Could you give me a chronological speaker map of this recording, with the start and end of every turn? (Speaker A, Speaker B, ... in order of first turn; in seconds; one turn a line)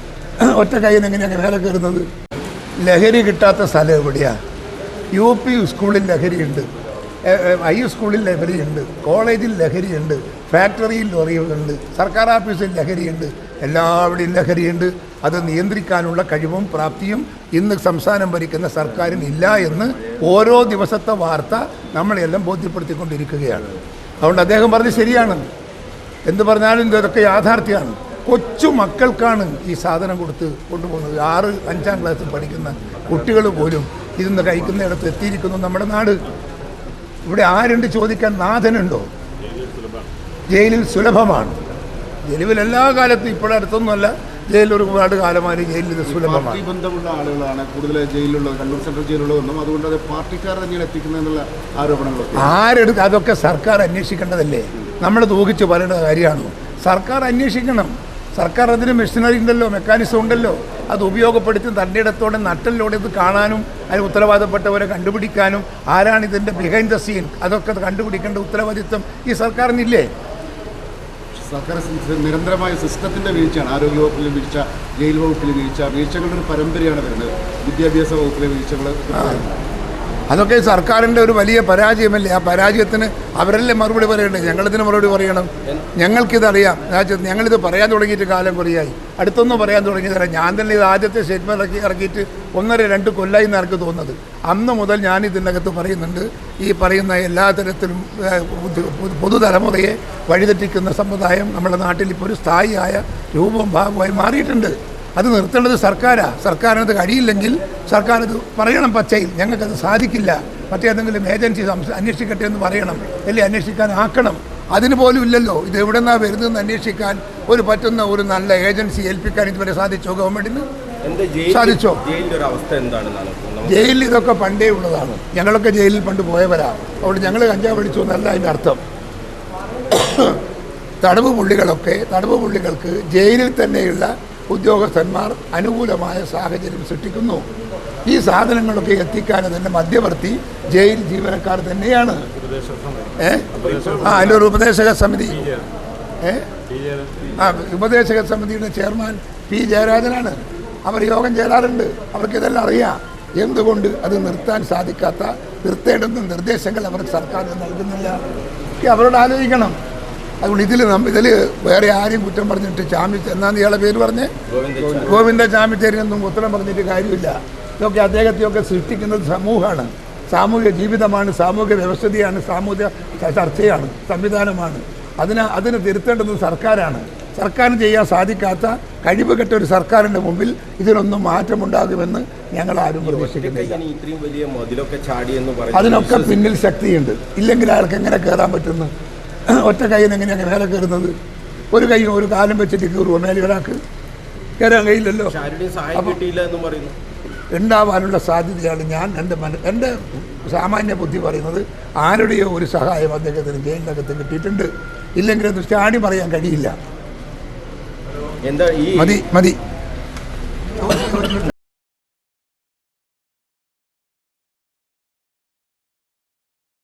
Speaker A: 0.5-2.0
Speaker A: 2.8-4.3
Speaker A: 5.1-6.7
Speaker A: 7.2-23.6
Speaker A: 24.2-25.4
Speaker A: 26.2-36.2
Speaker A: 37.2-39.0
Speaker A: 40.5-41.6
Speaker A: 42.3-46.6
Speaker B: 46.0-52.5
Speaker A: 52.4-70.1
Speaker B: 71.3-79.5
Speaker A: 79.1-79.4
Speaker A: 80.3-120.7
Speaker C: 121.0-124.0
Speaker A: 121.5-122.0
Speaker A: 123.7-128.8
Speaker A: 129.9-130.4
Speaker A: 131.0-137.4
Speaker A: 138.1-142.2
Speaker A: 143.2-145.6
Speaker A: 147.4-158.2
Speaker A: 158.8-159.7
Speaker A: 160.4-164.3
Speaker C: 164.5-165.2
Speaker A: 165.0-183.8
Speaker C: 183.0-186.4
Speaker A: 185.7-188.9
Speaker A: 189.5-191.1
Speaker A: 191.7-193.8
Speaker A: 194.6-195.3
Speaker C: 195.3-196.9
Speaker A: 195.9-196.2
Speaker A: 197.5-206.7
Speaker C: 208.4-209.2
Speaker A: 208.9-209.6
Speaker A: 210.8-211.5